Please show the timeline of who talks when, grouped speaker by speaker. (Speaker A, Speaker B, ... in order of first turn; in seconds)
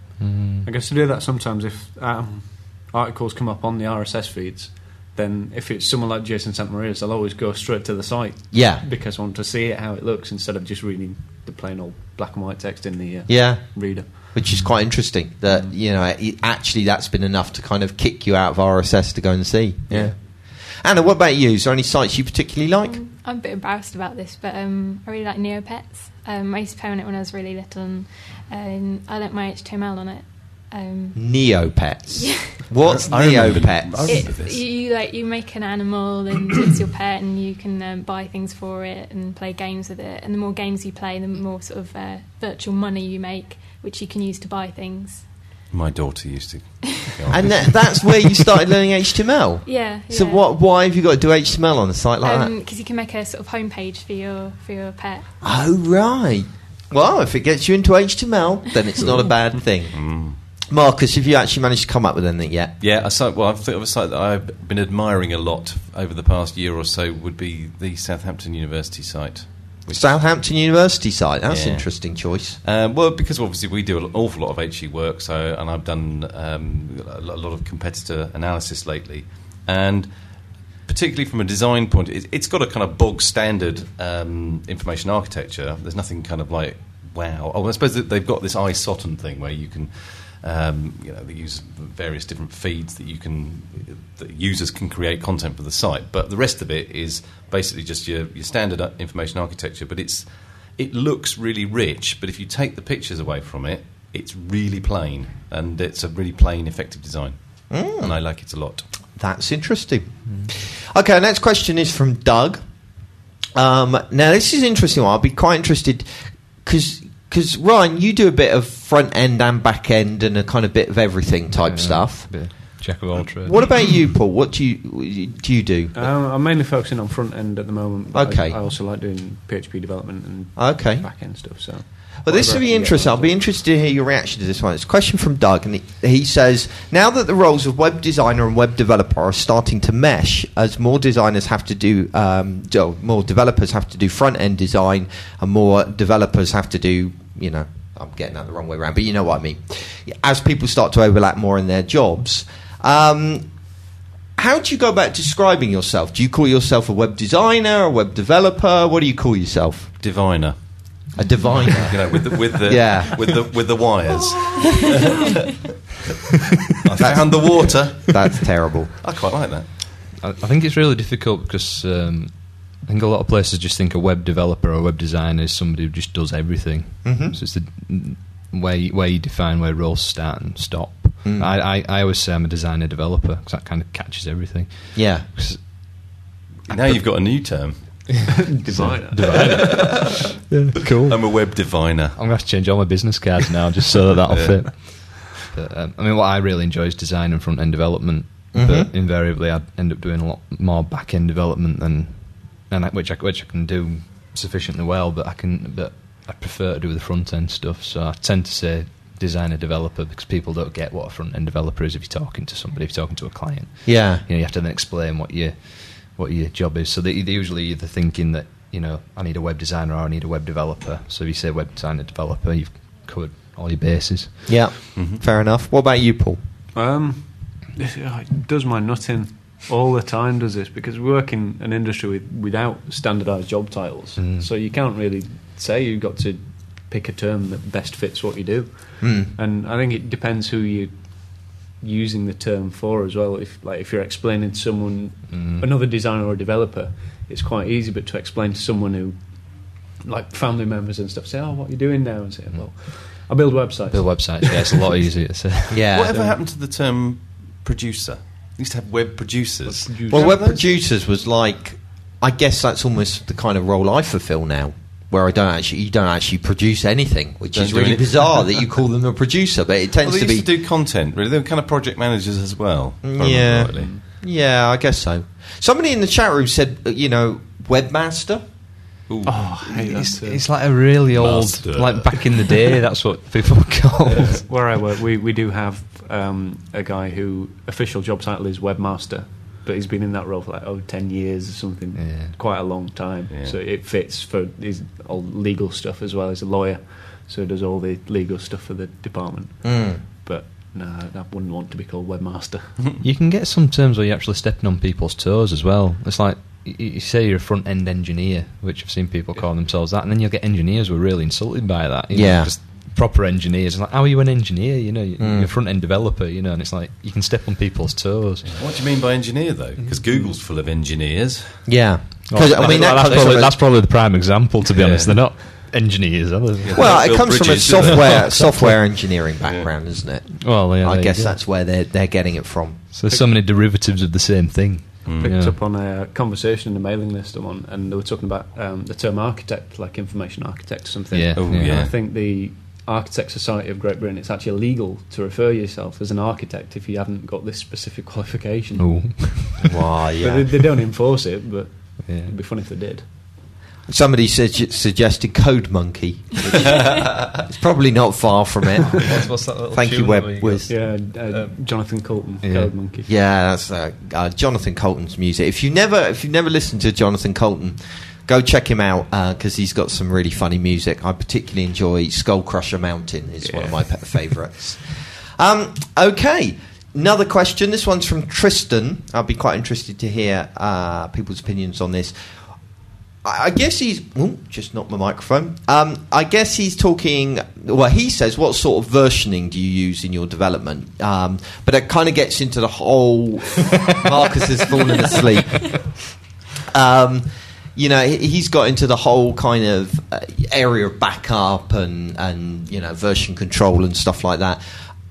Speaker A: 0.2-0.7, 110.2-110.5, 121.5-123.7, 170.2-185.6, 188.7-224.6, 234.2-234.5, 245.3-245.7, 253.9-255.9, 279.4-284.4, 291.9-292.4, 303.0-318.8, 319.8-320.3, 322.3-328.8, 330.4-331.4, 332.9-335.6, 341.1-341.8, 348.8-349.7, 352.0-352.3, 359.0-362.7
Speaker B: 0.6-14.3, 15.5-15.7, 125.9-133.4, 188.3-189.9, 226.7-255.1, 256.1-256.4, 259.6-260.7, 273.7-274.0, 279.2-280.4, 284.4-302.9, 333.1-333.4, 335.2-349.4, 350.1-353.1, 360.7-363.1, 373.4-374.3
Speaker C: 8.5-8.8, 13.3-23.0, 31.1-34.2, 47.3-52.5, 55.4-62.7, 69.9-72.6, 107.7-108.1, 109.1-112.6, 113.5-116.1, 116.6-125.9, 128.1-128.6, 130.6-153.7, 154.3-159.9, 161.2-163.3, 167.0-168.9, 177.0-177.4, 181.2-181.5, 184.9-185.2, 198.5-198.9, 213.8-214.2, 224.5-226.4, 239.0-239.3, 255.7-256.1, 260.1-270.5, 273.0-278.4, 299.6-300.0, 312.1-312.5, 315.2-315.5, 321.6-323.6, 326.7-332.8, 349.7-350.4, 353.9-360.7, 363.0-382.1, 383.2-395.9, 396.7-404.6
Speaker D: 22.8-32.6, 34.0-45.4, 49.6-50.5, 52.2-55.3
Speaker E: 32.9-34.6, 45.7-48.1, 59.9-60.4, 62.8-70.1, 71.5-108.9, 160.0-161.2, 161.9-165.2, 166.8-168.2, 169.0-169.7, 186.7-188.2, 189.3-190.1, 191.0-192.2, 194.3-194.9, 224.9-225.2, 255.9-260.4, 267.5-268.5, 270.0-273.9, 279.1-280.2, 281.1-282.6, 293.3-293.6, 318.5-321.8, 322.8-323.3, 324.7-325.3, 326.6-328.8, 329.4-329.7, 335.1-335.3, 341.3-341.9